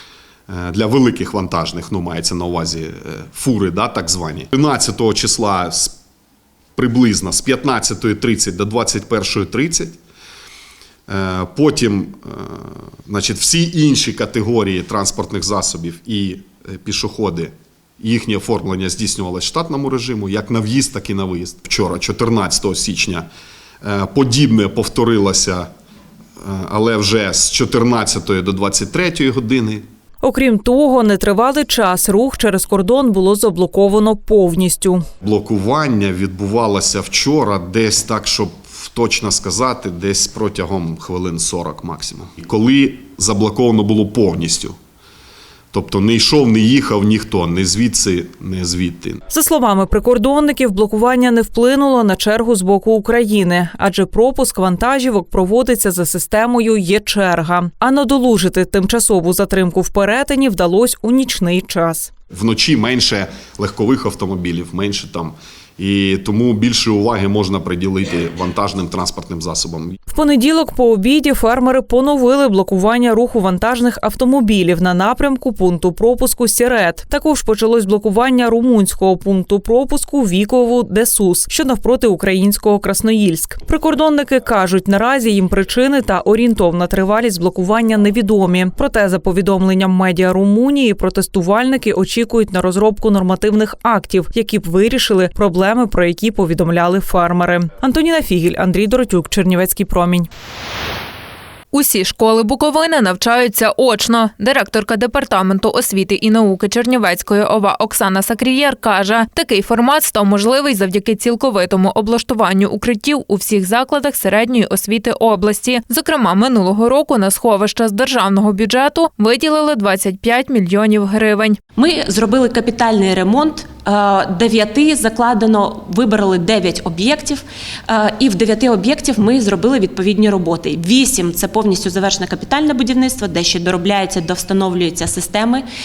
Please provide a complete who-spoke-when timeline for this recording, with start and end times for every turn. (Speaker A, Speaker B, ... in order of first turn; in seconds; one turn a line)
Speaker A: 0.5-6.0
Speaker A: 6.8-10.0
Speaker A: 11.1-23.3
Speaker A: 23.8-25.7
Speaker A: 26.4-29.9
Speaker B: 30.2-35.0
Speaker A: 35.2-44.8
Speaker A: 45.7-49.2
Speaker B: 49.3-62.1
Speaker A: 62.3-70.0
Speaker B: 70.1-100.3
Speaker C: 101.7-121.6
Speaker D: 121.8-135.6